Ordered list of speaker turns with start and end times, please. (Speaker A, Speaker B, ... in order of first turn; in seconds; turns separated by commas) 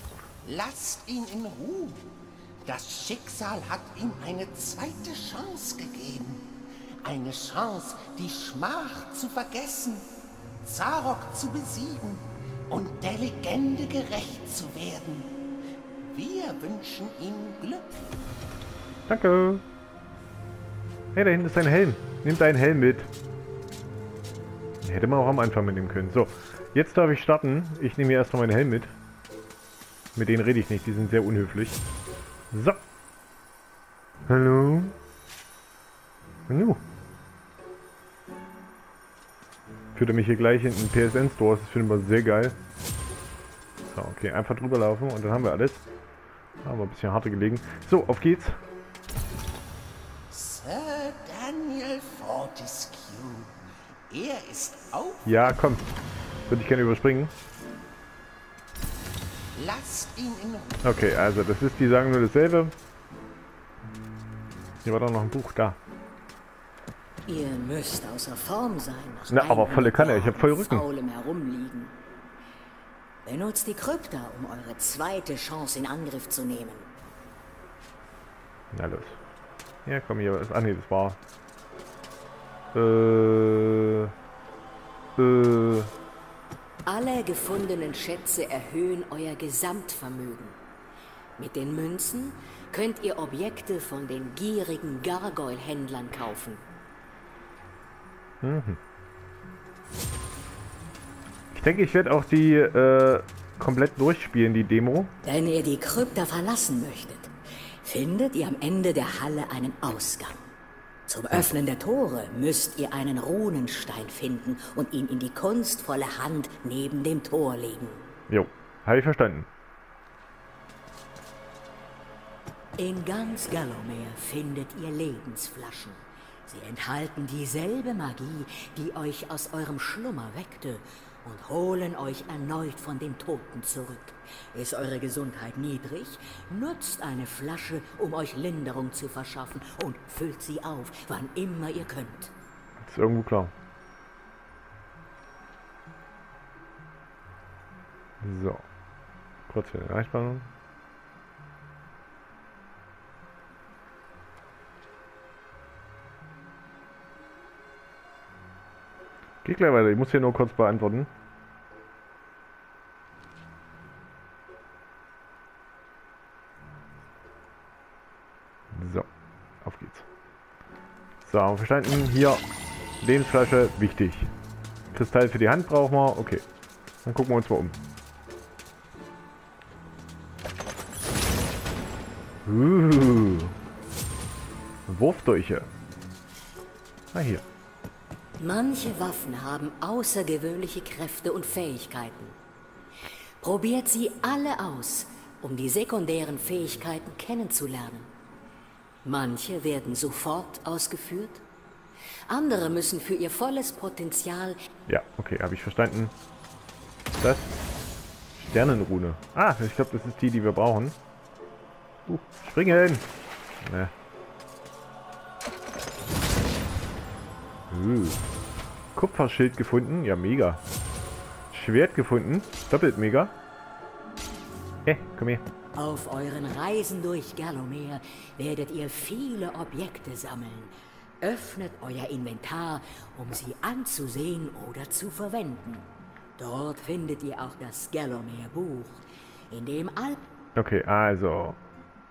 Speaker A: 0.4-2.1, Speaker A: 2.6-6.5, Speaker A: 7.0-10.1, Speaker A: 10.6-15.3, Speaker A: 16.1-17.9, Speaker B: 19.1-19.6, Speaker B: 21.1-23.1, Speaker B: 24.8-28.9, Speaker B: 30.1-31.8, Speaker B: 32.5-32.8, Speaker B: 34.3-35.0, Speaker B: 36.5-36.8, Speaker B: 40.0-42.6, Speaker B: 43.8-45.9, Speaker B: 46.6-48.6, Speaker A: 50.3-53.6, Speaker A: 54.1-55.2, Speaker B: 55.2-55.9, Speaker B: 56.5-57.3, Speaker A: 59.5-60.8, Speaker B: 60.8-62.8, Speaker B: 64.8-65.8, Speaker C: 67.3-72.0, Speaker B: 69.3-70.8, Speaker C: 73.3-76.9, Speaker B: 78.7-79.2, Speaker B: 79.8-81.2, Speaker B: 82.7-84.1, Speaker B: 85.2-85.9, Speaker C: 86.9-90.6, Speaker C: 91.4-96.6, Speaker B: 98.4-98.8, Speaker B: 101.5-105.1, Speaker C: 105.2-110.5, Speaker C: 111.1-118.0, Speaker B: 118.3-119.5, Speaker C: 122.8-142.3, Speaker B: 142.8-143.5, Speaker B: 148.2-148.7, Speaker B: 149.5-150.5, Speaker B: 159.4-161.1, Speaker B: 168.7-169.1, Speaker B: 169.6-170.1, Speaker B: 171.2-172.4, Speaker B: 173.0-174.3, Speaker B: 174.9-176.4, Speaker B: 177.1-177.8, Speaker B: 182.4-183.6, Speaker B: 184.9-185.7, Speaker B: 187.1-187.4, Speaker C: 188.4-192.4, Speaker C: 193.4-198.1, Speaker C: 199.0-201.4, Speaker C: 202.3-204.6, Speaker B: 204.9-206.1, Speaker B: 207.2-207.6, Speaker B: 208.4-211.0, Speaker B: 212.1-213.1, Speaker B: 213.6-213.9, Speaker B: 217.7-218.2, Speaker B: 218.9-220.6, Speaker B: 221.5-223.3, Speaker B: 224.8-225.5, Speaker C: 225.8-240.2, Speaker B: 240.6-241.6